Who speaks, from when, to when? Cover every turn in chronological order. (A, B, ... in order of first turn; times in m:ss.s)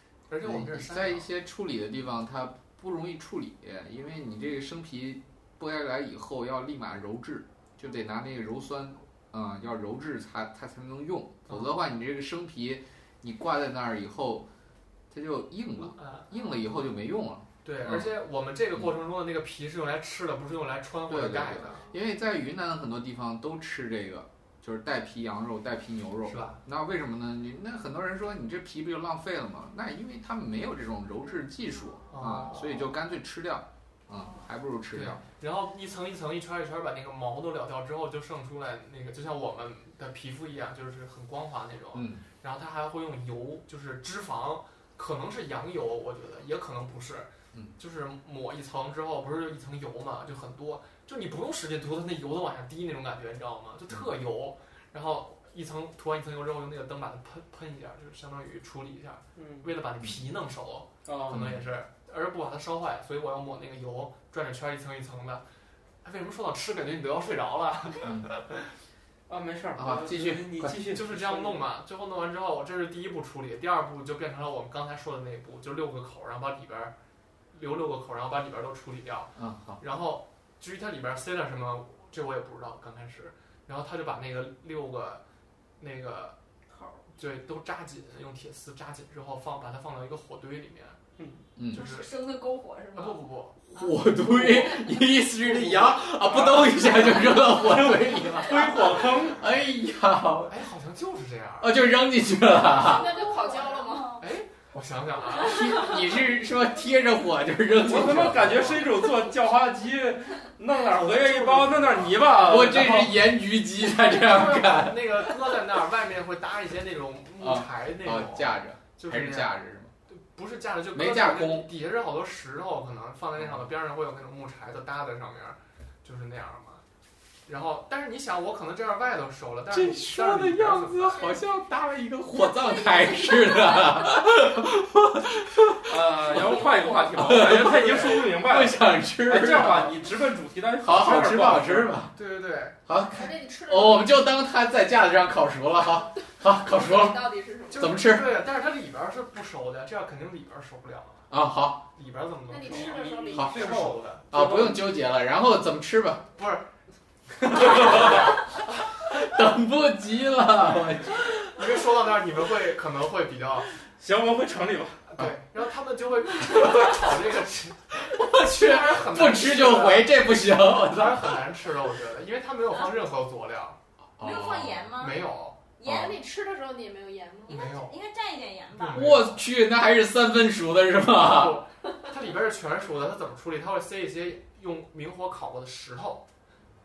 0:00.3-0:01.3 A
0:00.4-0:14.5 B
0:11.5-0:11.7 A
0:15.1-0:18.1 B
0:15.8-0:16.3 A
0:17.6-0:21.8 A
0:21.1-0:35.2 B
0:26.2-0:26.6 A
0:32.1-0:32.9 A
0:34.1-0:34.5 C
0:34.9-1:05.4 A
0:41.9-0:42.2 B
0:59.4-0:59.7 D
1:01.0-1:01.5 D
1:01.3-1:01.6 B
1:06.0-1:08.7 A
1:08.0-1:08.3 B
1:09.3-1:11.6 D
1:09.8-1:10.9 B
1:10.9-1:16.9 A
1:17.5-1:25.2 A
1:19.4-1:19.8 B
1:25.8-1:26.4 A
1:26.7-1:27.0 C
1:27.2-1:31.0 A
1:31.2-1:31.4 D
1:31.6-1:31.9 B
1:31.7-1:35.0 C
1:31.7-1:32.1 A
1:32.9-1:33.7 A
1:33.7-1:40.6 B
1:35.6-1:39.4 D
1:38.9-1:39.3 A
1:40.5-1:41.8 A
1:41.6-1:43.1 B
1:42.7-1:44.2 E
1:42.9-1:44.2 C
1:44.2-1:45.7 A
1:45.3-1:48.9 B
1:45.6-1:45.9 C
1:47.8-1:53.3 D
1:50.9-1:52.6 A
1:52.3-1:55.6 B
1:54.1-1:59.6 A
1:57.4-1:59.9 B
2:00.1-2:06.8 A
2:00.9-2:01.7 B
2:03.4-2:03.7 B
2:07.4-2:11.2 A
2:09.7-2:20.1 B
2:12.4-2:14.0 C
2:15.8-2:22.0 D
2:20.8-2:22.2 B
2:22.1-2:22.8 A
2:22.8-2:28.4 B
2:23.1-2:24.2 E
2:26.4-2:28.1 E
2:27.7-2:31.3 A
2:31.3-2:31.8 B
2:31.9-2:34.3 A
2:32.5-2:33.7 E
2:32.6-2:34.9 D
2:33.3-2:33.7 B
2:34.3-2:36.2 B
2:36.4-2:36.7 A
2:37.4-2:41.5 B
2:37.5-2:38.2 A
2:41.5-2:43.7 A
2:44.0-2:45.0 D
2:45.1-2:53.8 A
2:48.1-2:51.4 B
2:54.2-2:54.9 B
2:54.2-2:55.3 C
2:55.0-2:55.6 A
2:55.8-2:57.7 E
2:55.8-2:56.2 B
2:57.5-2:58.0 A
2:57.5-2:59.1 C
2:58.7-2:59.4 A
2:58.9-3:01.6 B
3:01.2-3:06.2 A